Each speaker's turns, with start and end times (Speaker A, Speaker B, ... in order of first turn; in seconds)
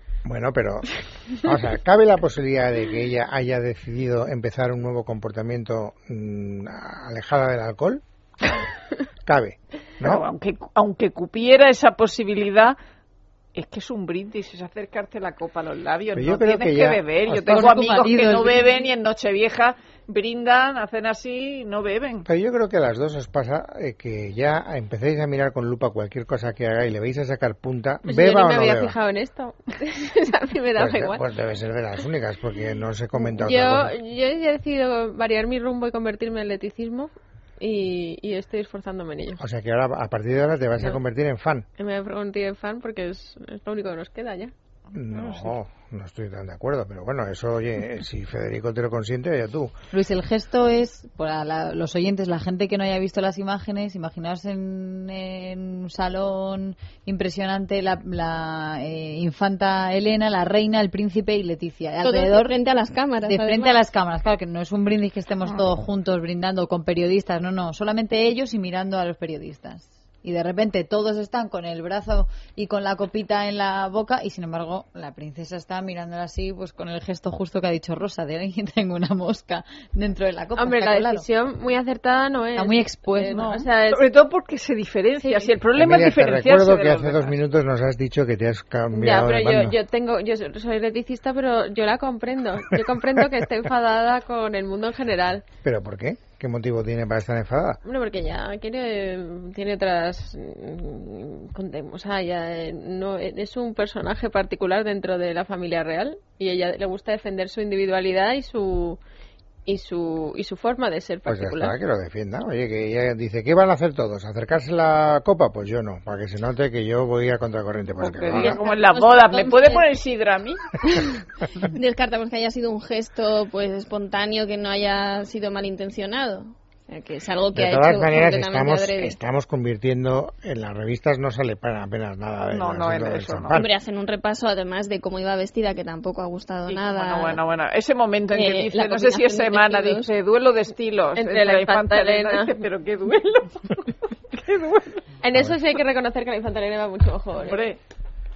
Speaker A: 0.3-8.0, 9.2-10.2, 16.1-17.7, 22.3-29.0, 30.8-33.9, 39.4-41.7, 44.9-49.7, 85.8-89.8, 95.6-97.8, 111.3-118.6, 127.5-133.7
Speaker B: 10.0-12.8, 13.6-22.3, 45.1-45.5, 83.3-87.4, 118.0-120.8, 132.5-133.6, 136.7-145.1, 147.4-147.8
Speaker C: 17.5-18.6, 49.9-62.5, 63.2-81.3, 82.6-83.7
Speaker D: 28.1-31.2, 33.2-39.4, 41.8-44.5, 80.6-84.1, 85.2-85.5, 88.9-95.5, 97.8-109.0, 109.7-111.8, 118.5-119.2, 141.2-142.6, 145.2-147.6
Speaker E: 62.0-63.8, 118.4-119.8, 121.6-129.1, 133.5-137.4, 138.3-140.1